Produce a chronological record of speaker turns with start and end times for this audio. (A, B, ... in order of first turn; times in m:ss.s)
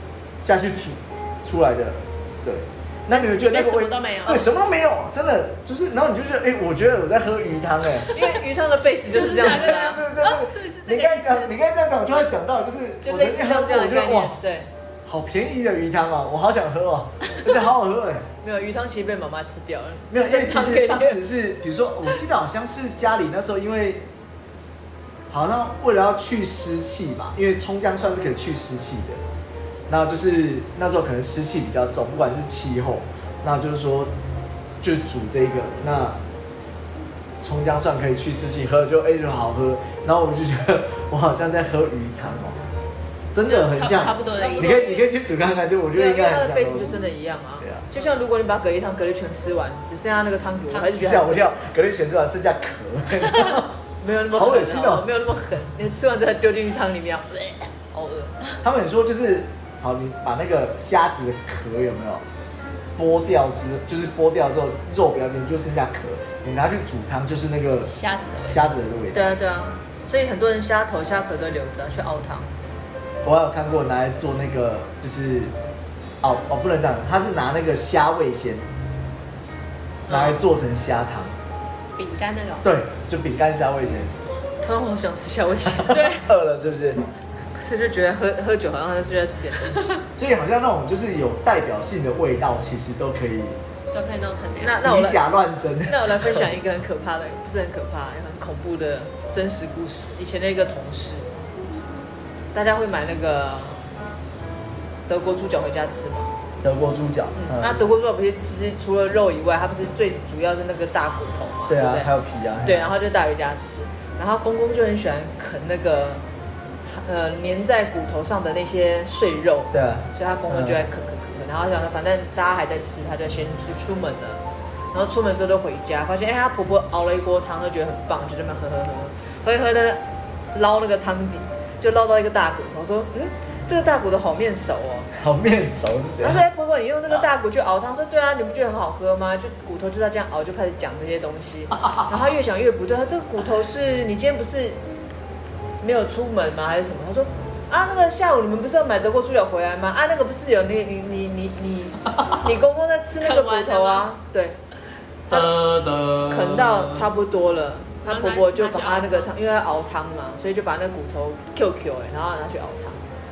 0:00.4-0:08.1 A
0:03.1-0:04.5 B
0:08.1-0:10.0 C
0:09.1-0:11.5 B
0:09.4-0:14.4 A
0:13.0-0:14.7 C
0:15.1-0:18.3 A
0:18.4-0:21.2 C
0:20.1-0:24.1 A
0:25.3-0:29.2 A
0:29.9-0:34.1 A
0:34.8-0:36.2 A
0:37.4-0:42.6 A
0:43.3-0:47.0 A
0:43.4-0:45.1 B
0:44.3-0:45.0 C
0:45.9-0:51.5 C
0:50.9-0:53.7 A
0:54.0-0:58.3 C
0:54.3-0:55.1 A
0:58.6-1:02.2 A
1:03.0-1:09.3 A
1:07.9-1:08.7 B
1:09.1-1:12.5 C
1:13.2-1:15.5 A
1:16.2-1:18.7 A
1:20.1-1:21.3 A
1:22.0-1:22.7 B
1:22.6-1:24.2 A
1:24.6-1:26.0 C
1:25.7-1:27.1 A
1:25.9-1:26.3 B
1:27.5-1:30.0 C
1:30.2-1:33.6 A
1:33.9-1:34.8 B
1:34.6-1:35.2 C
1:34.8-1:36.5 A
1:35.9-1:41.3 C
1:42.5-1:43.8 C
1:45.1-1:46.3 C
1:46.6-1:47.8 A
1:47.4-1:52.1 C
1:51.7-1:52.9 A
1:52.6-1:56.2 C
1:56.9-2:04.4 C
1:59.7-2:00.8 A
2:04.9-2:15.1 C
2:15.1-2:16.4 A
2:16.2-2:24.8 C
2:25.8-2:34.6 C
2:33.2-2:34.1 B
2:35.3-2:37.1 A
2:36.3-2:43.0 C
2:38.0-2:39.3 B